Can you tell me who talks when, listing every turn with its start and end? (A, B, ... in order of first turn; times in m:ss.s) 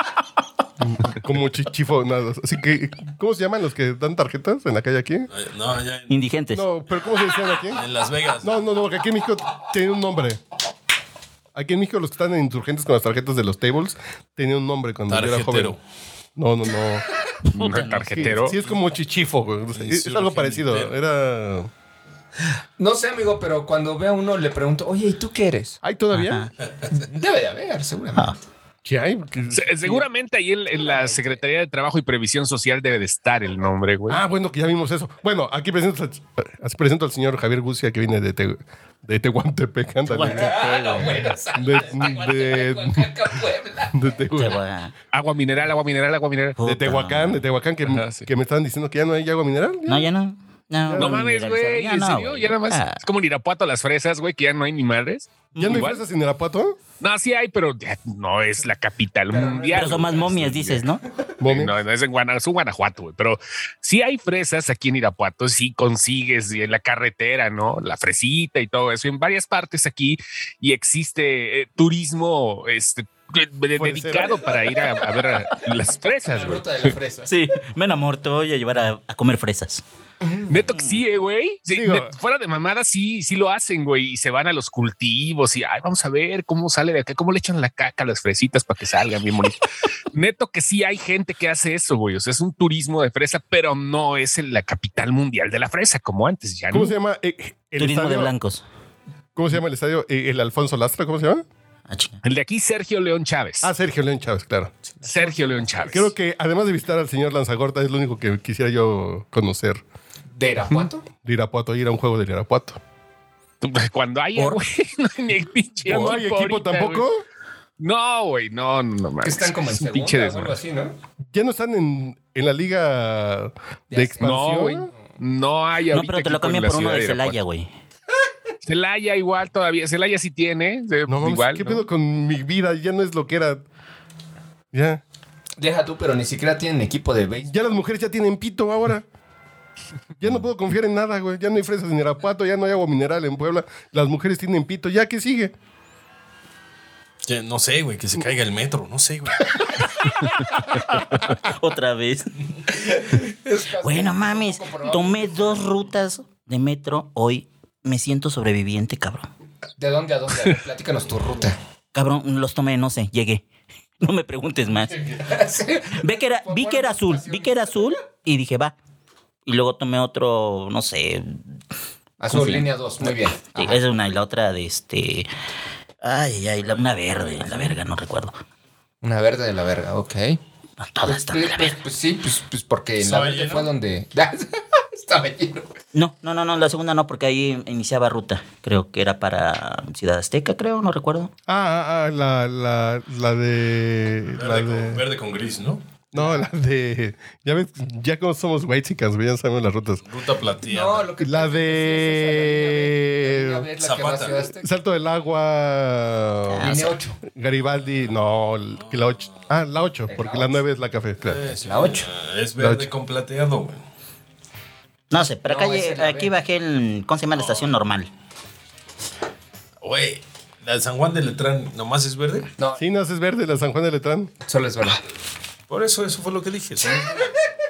0:00.8-0:05.3 A
0:05.3-0:06.2 B
0:06.1-0:06.6 C
0:06.5-0:07.8 A
0:07.7-0:08.5 B
0:08.4-0:10.4 A
0:11.5-0:15.8 A
0:15.1-0:15.8 B
0:16.4-0:17.0 A
0:17.5-0:18.6 D
0:17.6-0:18.4 C
0:18.1-0:21.7 A
0:19.8-0:20.9 B
0:22.8-0:25.8 E
0:25.8-0:26.4 A
0:26.1-0:26.5 C
0:26.9-0:28.4 E
0:28.8-0:30.0 A
0:29.5-0:34.2 D
0:30.7-0:31.4 E
0:34.1-0:40.5 A
0:40.1-0:41.3 C
0:40.2-0:44.0 E
0:41.6-0:43.1 A
0:43.9-0:44.6 A
0:44.3-0:44.9 C
0:45.1-0:46.6 D
0:46.6-0:47.4 C
0:46.6-0:50.1 A
0:47.9-0:48.2 D
0:49.8-0:53.0 C
0:50.8-0:51.2 A
0:51.0-0:56.0 D
0:55.6-0:55.8 C
0:55.6-0:56.8 A
0:57.0-1:00.8 D
0:59.3-1:00.3 E
0:59.7-1:01.0 C
1:01.4-1:01.8 A
1:01.4-1:16.9 D
1:13.7-1:14.9 A
1:16.2-1:17.3 E
1:17.3-1:19.8 C
1:20.2-1:20.6 E
1:20.5-1:29.6 D
1:21.7-1:22.1 A
1:30.1-1:36.9 D
1:36.7-1:38.3 A
1:37.8-1:38.6 C
1:39.4-1:41.4 A
1:41.9-1:42.2 C
1:42.2-1:43.7 D
1:43.6-1:44.7 A
1:45.0-1:46.1 D
1:45.0-1:45.9 E
1:45.9-1:49.8 A
1:50.3-1:51.0 E
1:51.2-1:52.8 A
1:53.6-1:57.0 D
1:55.8-1:57.2 A
1:57.8-2:00.6 D
1:59.2-2:01.0 E
2:01.3-2:04.9 A
2:03.9-2:04.4 E
2:04.2-2:07.4 D
2:05.9-2:07.7 C
2:08.6-2:11.8 D
2:11.1-2:13.6 A
2:14.7-2:15.0 A
2:15.6-2:17.5 E
2:17.4-2:19.0 A
2:20.2-2:25.5 A
2:27.2-2:29.5 B
2:30.9-2:32.3 C
2:32.7-2:35.6 E
2:33.8-2:39.3 C
2:39.8-2:41.6 E
2:41.9-2:43.4 C
2:44.0-2:45.0 C
2:45.0-2:47.9 E
2:46.0-2:48.7 C
2:49.4-2:51.4 C
2:52.2-2:53.8 E
2:52.3-2:55.3 C
2:56.0-2:58.4 C
2:59.0-3:00.4 E
3:00.8-3:01.8 C
3:01.0-3:05.7 E
3:03.0-3:03.7 B
3:05.9-3:11.3 C
3:11.5-3:15.0 A
3:14.4-3:16.4 B
3:16.1-3:20.0 A
3:20.1-3:21.1 B
3:20.6-3:24.7 E
3:21.2-3:23.7 A
3:23.8-3:24.4 B
3:24.6-3:31.5 A
3:26.5-3:27.0 C
3:26.6-3:27.2 E
3:28.8-3:29.4 B
3:30.1-3:30.6 E
3:31.2-3:33.8 B
3:31.6-3:32.1 E
3:32.6-3:32.9 A
3:35.1-3:38.1 C
3:35.4-3:36.3 E
3:37.3-3:37.7 B
3:39.8-3:42.5 B
3:42.8-3:44.3 A
3:44.5-3:45.0 E
3:45.7-3:47.3 B